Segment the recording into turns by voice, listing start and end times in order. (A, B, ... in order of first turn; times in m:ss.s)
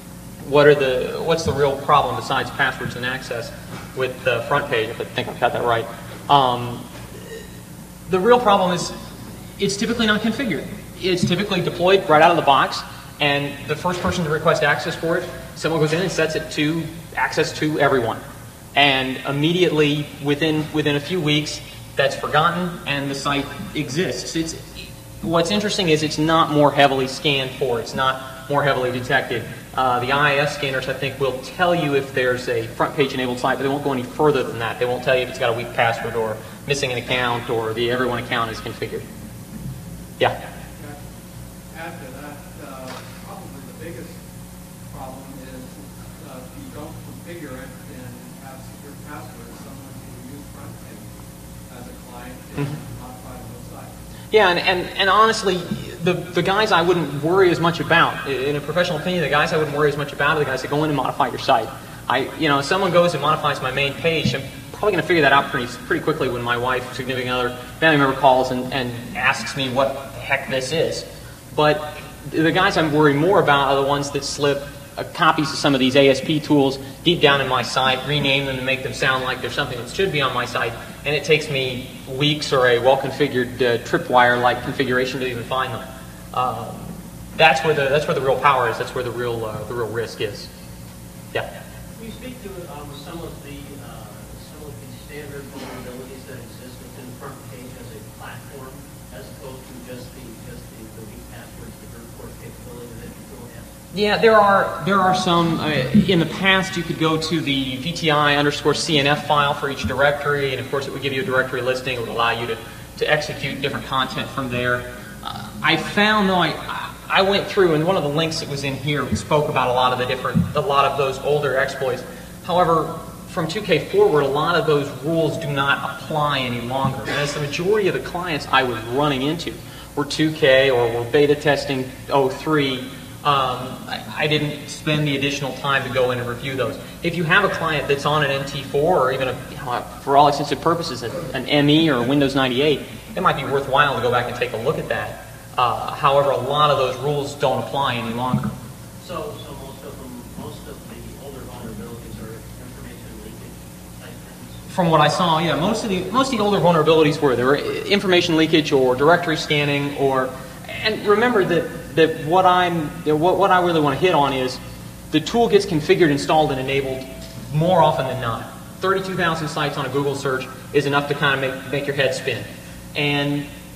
0:00.4-0:07.4 A
0:08.1-0:09.0 A
0:09.6-0:18.2 A
0:18.7-0:39.0 A
0:40.4-0:41.2 B
0:41.7-0:44.2 B
0:44.9-0:51.0 B
0:51.7-0:53.9 B
0:54.3-1:30.5 A
1:31.9-1:43.7 C
1:43.9-2:28.6 A
2:29.0-2:34.6 C
2:34.7-2:44.6 A
2:45.1-2:53.5 A